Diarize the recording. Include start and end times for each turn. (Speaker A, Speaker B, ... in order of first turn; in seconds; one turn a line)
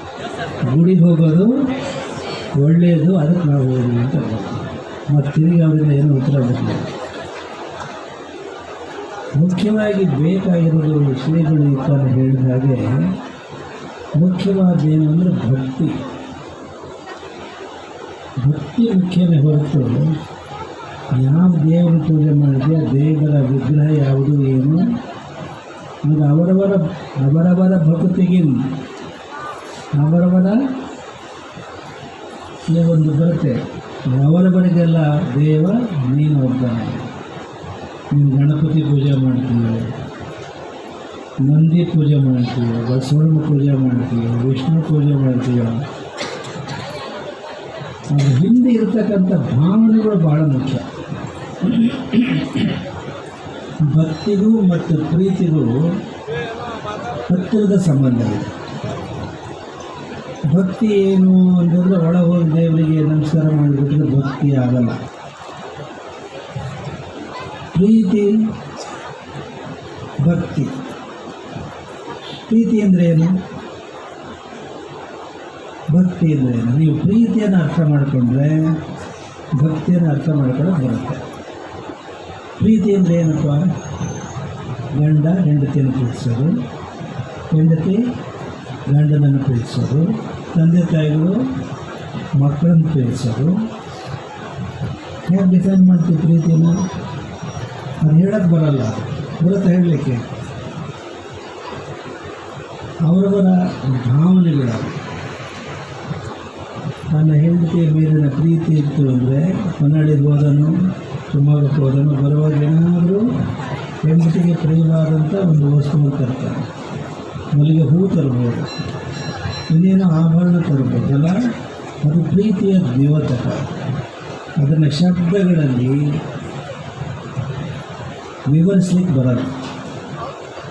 Speaker A: 0.6-1.5
Speaker A: 2.6-6.9
Speaker A: 9.4-13.2
Speaker A: 14.2-16.0
Speaker A: 18.4-20.1
Speaker A: 21.1-24.9
Speaker A: 26.0-28.6
Speaker A: 29.9-30.6
Speaker A: 32.7-33.6
Speaker A: 34.1-37.1
Speaker A: 38.1-39.9
Speaker A: 41.4-45.8
Speaker A: 48.1-50.9
Speaker A: 51.6-52.7
Speaker A: 53.8-56.0
Speaker A: 57.2-58.5
Speaker A: 60.5-65.0
Speaker A: 67.7-68.5
Speaker A: 70.2-70.7
Speaker A: 72.5-73.4
Speaker A: 75.9-78.8
Speaker A: 79.6-81.2
Speaker A: 82.6-83.7
Speaker A: 85.0-86.6
Speaker A: 87.5-88.0
Speaker A: 88.9-91.4
Speaker A: 92.4-93.6
Speaker A: 95.2-96.8
Speaker A: 98.0-100.2
Speaker A: 103.1-105.0
Speaker A: 107.1-110.8
Speaker A: 111.3-113.2
Speaker A: 114.0-116.7
Speaker A: 117.5-118.7
Speaker A: 119.7-121.4
Speaker A: 122.0-123.8
Speaker A: 124.6-126.1
Speaker A: 128.5-129.5